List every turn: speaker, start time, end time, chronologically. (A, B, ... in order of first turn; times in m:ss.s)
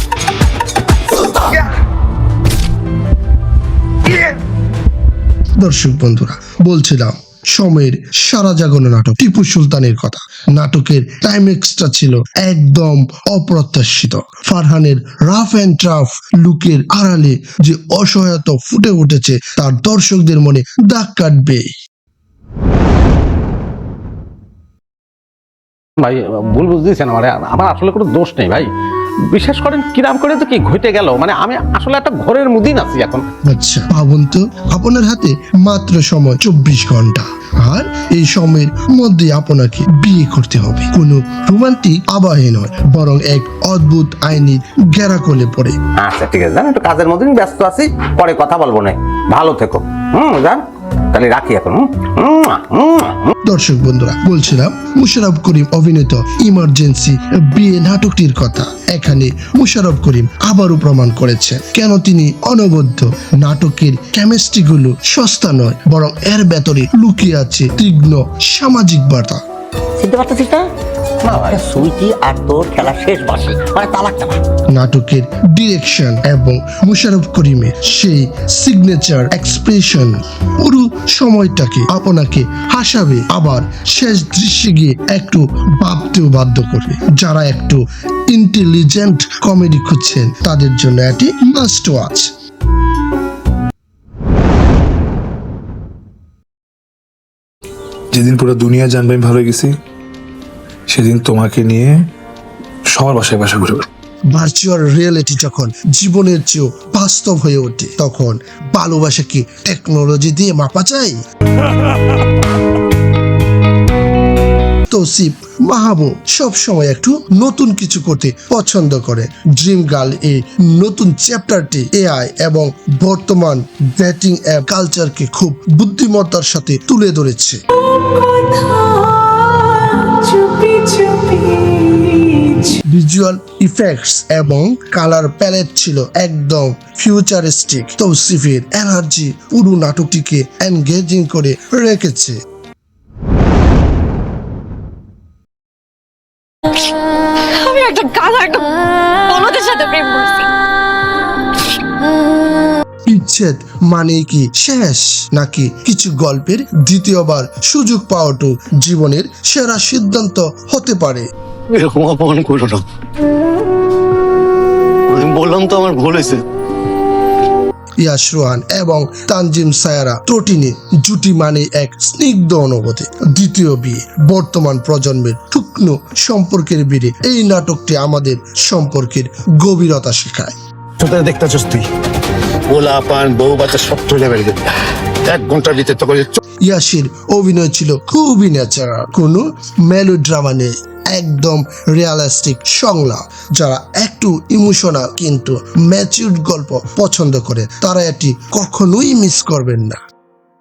0:05.6-0:21.7 A
0:26.0-0:28.7 B
0:29.3-0:33.2 B
0:33.4-0:45.8 A
0:46.0-0:53.3 B
0:53.4-1:09.4 A
1:10.0-1:10.7 C
1:11.3-1:11.6 B
1:11.3-1:14.4 C
1:14.7-1:32.3 A
1:38.1-1:39.7 D
1:40.9-1:42.0 D
1:42.9-1:43.8 D
1:44.3-1:51.2 A
1:54.9-2:07.6 A
2:07.8-2:12.7 E
2:12.9-2:22.4 A
2:27.6-2:30.5 E
2:33.1-2:41.3 A
2:41.7-2:42.8 F
2:45.1-2:46.4 F
2:48.0-3:00.6 A
3:01.0-3:01.9 F
3:02.7-3:04.7 F
3:05.2-3:06.4 F
3:06.6-3:20.0 A